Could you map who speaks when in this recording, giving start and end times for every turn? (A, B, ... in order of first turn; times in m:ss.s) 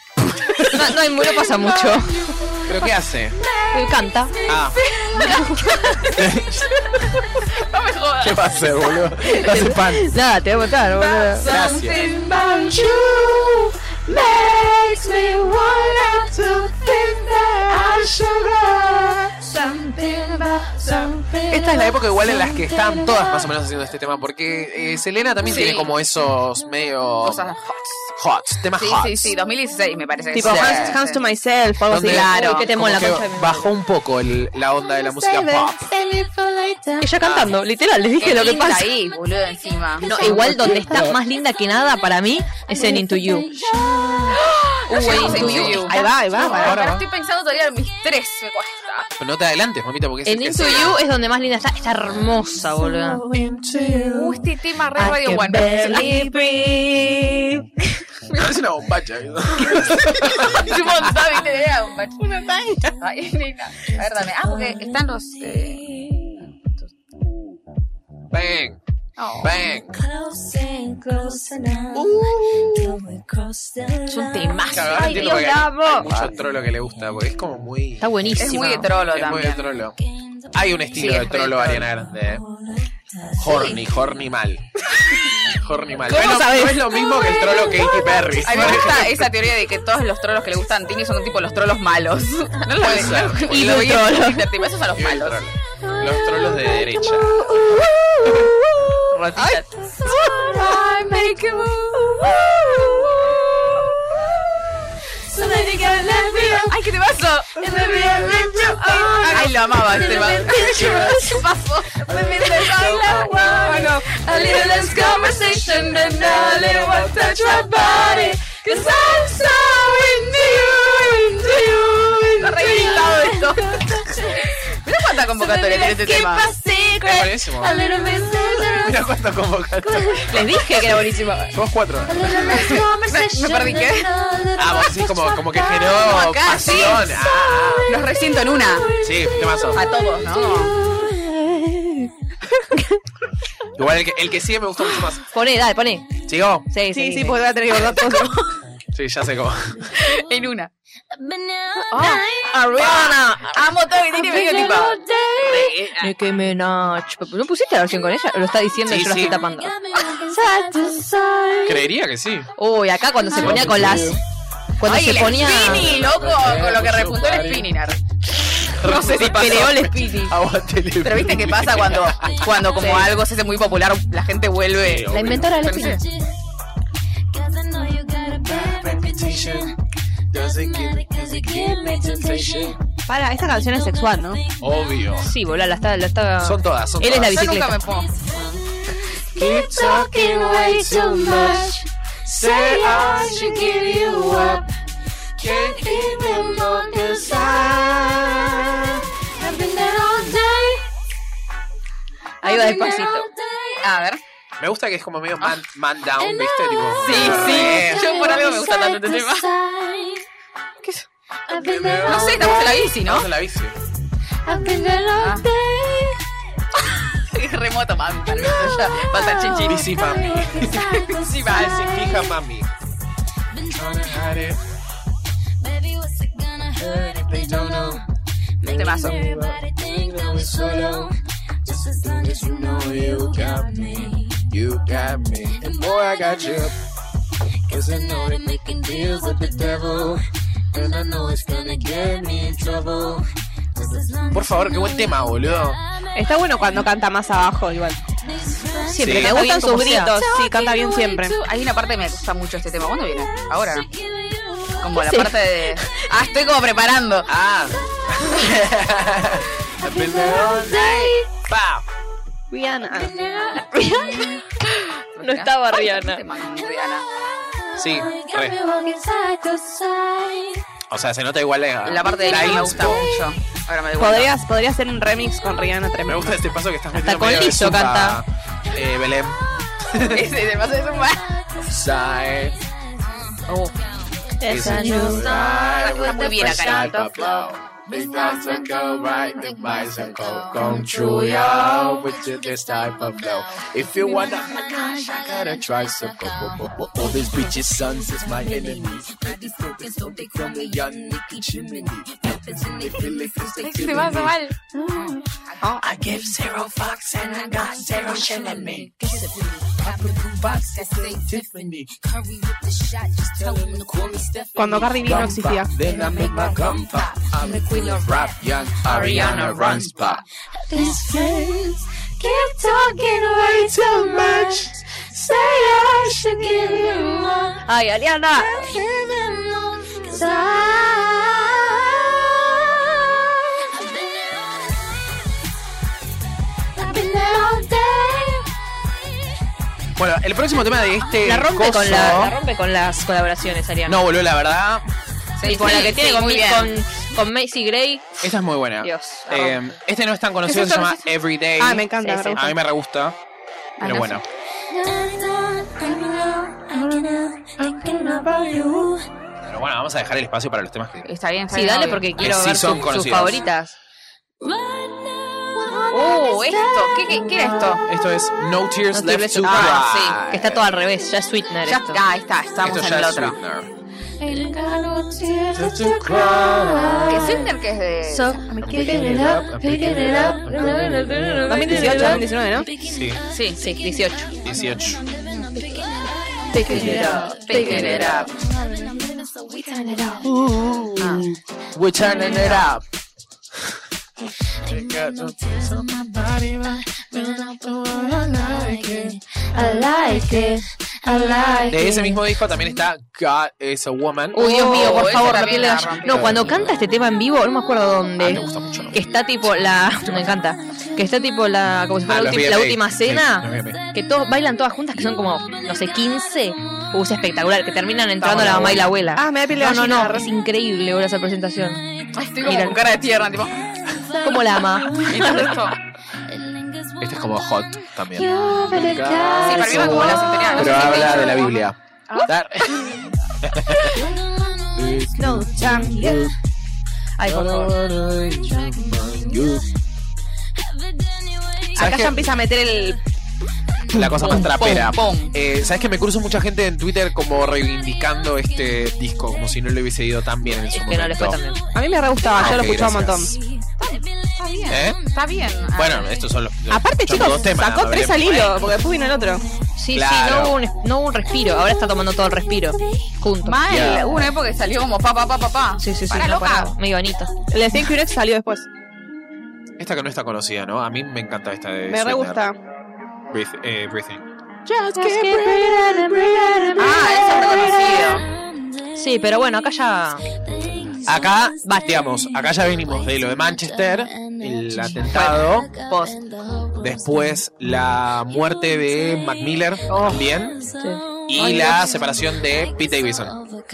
0:00.2-0:01.4 A
0:00.6-0:02.3 B
0:02.6-0:03.4 A
0:03.4-0:05.7 C
0:03.7-0:04.4 B
0:04.4-0:04.8 A
0:04.8-0:06.0 D
0:05.6-0:06.1 B
0:06.0-0:07.5 A
0:07.5-0:09.3 D
0:08.2-0:10.1 A
0:09.3-0:11.5 B
0:11.0-0:12.4 D
0:11.5-0:12.1 A
0:11.9-0:23.5 C
0:21.5-0:27.5 A
0:25.4-0:25.9 D
0:27.2-0:28.1 D
0:28.1-0:29.4 A
0:28.8-0:31.2 D
0:30.3-0:32.3 E
0:30.5-0:30.7 A
0:31.9-0:35.9 A
0:32.0-0:32.7 D
0:32.3-0:33.7 B
0:35.9-0:36.8 E
0:37.0-0:38.9 B
0:37.2-0:37.5 A
0:38.2-0:40.4 D
0:40.0-0:43.5 B
0:40.1-0:41.0 E
0:40.4-0:41.1 A
0:40.4-0:41.1 C
0:42.8-0:43.9 C
0:44.3-0:49.1 D
0:44.9-0:46.0 B
0:45.2-0:46.8 E
0:45.2-0:45.8 A
0:46.4-0:47.0 A
0:49.2-0:51.0 A
0:50.2-0:53.2 B
0:50.6-0:50.9 D
0:53.3-0:54.0 A
0:53.8-0:54.2 C
0:54.1-0:56.2 D
0:55.0-0:57.5 C
0:58.3-1:01.1 A
1:00.3-1:02.2 D
1:02.2-1:02.9 E
1:03.0-1:05.9 D
1:05.9-1:06.3 C
1:08.3-1:08.8 A
1:09.2-1:09.5 D
1:09.4-1:10.0 A
1:10.1-1:14.7 C
1:12.0-1:12.3 A
1:14.1-1:15.5 D
1:14.7-1:18.3 A
1:14.8-1:16.1 B
1:18.0-1:18.9 B
1:18.4-1:19.7 D
1:19.1-1:20.0 A
1:20.5-1:22.4 A
1:20.9-1:21.9 D
1:23.4-1:24.7 A
1:23.4-1:23.8 D
1:25.4-1:29.3 A
1:26.3-1:28.4 C
1:28.4-1:35.4 D
1:32.8-1:33.7 A
1:33.5-1:34.4 B
1:33.9-1:34.2 C
1:35.0-1:37.7 A
1:35.9-1:38.7 C
1:39.1-1:40.1 D
1:39.4-1:44.4 C
1:40.6-1:41.4 D
1:45.2-1:46.8 C
1:46.5-1:47.8 D
1:47.6-1:51.5 C
1:49.1-1:55.5 D
1:49.2-1:49.5 E
1:52.1-2:04.7 C
1:52.8-1:53.1 F
1:53.0-1:53.4 A
1:53.7-1:54.0 E
1:55.8-1:57.3 F
1:57.6-1:58.0 D
2:00.4-2:01.4 D
2:02.4-2:06.5 D
2:05.3-2:09.1 C
2:07.0-2:07.7 A
2:08.8-2:10.4 A
2:09.8-2:10.9 C
2:10.3-2:11.6 B
2:11.5-2:12.6 A
2:12.1-2:22.1 C
2:12.3-2:14.1 D
2:14.6-2:18.0 A
2:16.0-2:17.2 D
2:17.9-2:18.9 D
2:19.0-2:19.8 A
2:19.7-2:20.8 D
2:23.8-2:25.2 A
2:25.3-2:26.1 B
2:26.3-2:26.7 A
2:26.7-2:27.4 B
2:26.9-2:28.5 E
2:28.9-2:29.9 A
2:29.9-2:30.7 D
2:31.3-2:33.4 C
2:31.9-2:36.1 D
2:32.6-2:33.6 B
2:34.0-2:35.8 C
2:35.5-2:39.7 B
2:38.9-2:39.4 A
2:40.0-2:41.8 C
2:41.6-2:42.5 A
2:42.6-2:44.2 B
2:43.4-2:44.2 A
2:44.8-2:45.9 B
2:44.8-2:48.0 D
2:45.4-2:47.7 A
2:48.6-2:52.6 A
2:48.7-2:49.8 D
2:49.1-2:50.4 B
2:51.0-2:56.0 D
2:52.8-2:53.1 B
2:54.8-2:55.5 A
2:55.1-2:56.0 B
2:57.3-2:59.6 C
2:58.4-2:59.7 A
3:00.3-3:02.8 A
3:00.6-3:02.7 C
3:03.1-3:04.4 E
3:04.6-3:05.3 A
3:05.2-3:07.9 B
3:06.4-3:07.6 A
3:07.2-3:08.3 D
3:08.4-3:08.6 C
3:09.2-3:14.6 C
3:09.4-3:11.7 A
3:12.3-3:14.6 A
3:15.4-3:18.3 A
3:15.5-3:17.8 C
3:19.4-3:20.9 C
3:22.4-3:23.3 B
3:22.4-3:23.8 C
3:23.8-3:24.2 D
3:24.6-3:28.0 A
3:26.2-3:30.2 C
3:27.0-3:29.5 D
3:31.5-3:32.9 C
3:31.6-3:33.8 A
3:32.0-3:33.3 D
3:34.4-3:36.2 C
3:35.2-3:35.5 D
3:37.0-3:39.9 D
3:38.4-3:42.4 C
3:39.6-3:40.9 A
3:40.8-3:41.9 D
3:41.5-3:42.7 A
3:43.7-3:44.6 A
3:45.6-3:46.8 C
3:46.8-3:48.0 A
3:47.4-3:47.9 C
3:48.6-3:49.3 D
3:48.6-3:51.1 C
3:48.7-3:51.1 A
3:51.7-3:56.7 A
3:52.7-3:54.0 C
3:57.7-4:00.2 A
3:59.0-3:59.7 C
4:00.7-4:03.2 A
4:04.3-4:05.8 A
4:06.2-4:08.1 E
4:08.4-4:09.0 C
4:08.9-4:10.3 B
4:09.0-4:09.4 A
4:09.0-4:11.4 E
4:10.1-4:11.2 C
4:10.6-4:13.9 D
4:14.3-4:15.2 C
4:14.8-4:17.3 D
4:15.0-4:15.3 B
4:17.3-4:21.8 A
4:19.8-4:21.3 C
4:22.5-4:23.2 E
4:22.9-4:24.4 C
4:25.1-4:27.1 D
4:25.2-4:26.2 B
4:27.8-4:28.6 A
4:27.8-4:30.6 C
4:30.9-4:33.2 A
4:31.8-4:34.3 D
4:34.0-4:36.4 E
4:36.1-4:40.3 A
4:36.9-4:38.2 B
4:40.0-4:41.4 D
4:41.6-4:42.6 A
4:43.5-4:43.7 D
4:44.4-4:44.9 E
4:44.4-4:46.9 C
4:44.4-4:59.1 A
4:45.8-4:47.4 D
4:48.0-4:53.1 F
4:48.1-4:52.1 C
4:52.8-4:53.3 C
4:54.0-4:55.9 C
4:54.0-5:04.4 F
4:58.4-4:58.9 C
5:00.4-5:02.0 A
5:02.8-5:04.3 A
5:03.6-5:05.2 D
5:03.8-5:04.3 C
5:05.8-5:19.8 F
5:07.6-5:08.9 C
5:13.4-5:13.7 A
5:14.6-5:15.7 E
5:15.0-5:20.2 A
5:15.8-5:18.4 C
5:18.9-5:20.2 B
5:20.7-5:27.7 C
5:27.7-5:28.7 B
5:28.3-5:34.8 C
5:36.8-5:38.5 C
5:40.0-5:42.4 A
5:41.2-5:44.0 B
5:43.9-5:44.9 A
5:45.4-5:46.7 D
5:45.4-5:49.8 B
5:48.2-5:53.2 A
5:50.5-5:50.8 D
5:51.6-5:52.6 E
5:52.0-5:52.4 B
5:53.8-5:54.2 D
5:53.8-5:54.2 A
5:54.7-5:58.8 C
5:59.4-6:01.1 A
6:01.0-6:02.1 D
6:01.5-6:03.8 B
6:02.2-6:03.4 A
6:04.4-6:07.2 C
6:05.9-6:07.8 D
6:07.8-6:10.6 A
6:08.9-6:12.0 B
6:09.4-6:10.2 D
6:11.6-6:13.4 D
6:12.6-6:13.7 A
6:14.2-6:30.3 C
6:15.5-6:17.4 A
6:17.0-6:18.5 D
6:18.6-6:22.3 A
6:20.5-6:22.3 B
6:21.5-6:22.7 E
6:22.8-6:23.2 A
6:23.3-6:23.7 D
6:23.6-6:24.3 B
6:24.4-6:25.0 A
6:26.5-6:28.3 B
6:26.7-6:28.1 A
6:27.4-6:28.4 D
6:30.2-6:32.8 A
6:31.0-6:31.3 D
6:34.7-6:39.2 A
6:39.5-6:42.3 C
6:41.7-6:44.7 A
6:44.3-7:01.8 B
6:44.3-6:46.5 D
6:46.1-6:46.8 A
6:48.2-6:49.0 A
6:52.1-6:53.8 A
6:58.2-6:58.7 D
6:58.3-6:58.9 A
6:59.2-7:00.3 E
7:02.1-7:03.7 D
7:02.4-7:02.8 B
7:04.2-7:05.7 B
7:04.4-7:04.6 C
7:05.0-7:05.8 D
7:07.0-7:12.8 A
7:08.1-7:11.5 C
7:09.4-7:11.6 D
7:13.4-7:14.1 A
7:13.8-7:14.1 C
7:14.8-7:16.3 A
7:15.2-7:16.2 E
7:17.2-7:17.7 B
7:17.2-7:19.7 A
7:18.7-7:19.4 C
7:21.8-7:22.2 A
7:21.8-7:23.0 E
7:23.9-7:31.4 A
7:24.1-7:25.4 D
7:30.7-7:31.6 B
7:31.8-7:33.4 E
7:32.3-7:33.4 A
7:32.4-7:32.8 C
7:33.8-7:36.2 D
7:34.7-7:35.0 A
7:35.8-7:38.7 A
7:36.7-7:39.4 E
7:39.8-7:44.0 B
7:39.9-7:40.6 A
7:43.4-7:46.8 D
7:43.7-7:44.3 A
7:45.8-7:47.3 B
7:47.5-7:48.7 E
7:49.8-7:52.4 A
7:51.9-7:52.6 E
7:53.3-7:55.7 A
7:55.0-7:57.2 B
7:55.0-7:58.2 C
7:56.8-7:58.3 D
7:59.0-8:00.2 B
8:00.9-8:05.7 A
8:01.7-8:02.0 B
8:05.1-8:06.2 D
8:06.8-8:10.6 A
8:09.9-8:10.3 D
8:10.8-8:11.5 B
8:11.3-8:13.4 A
8:11.4-8:11.9 E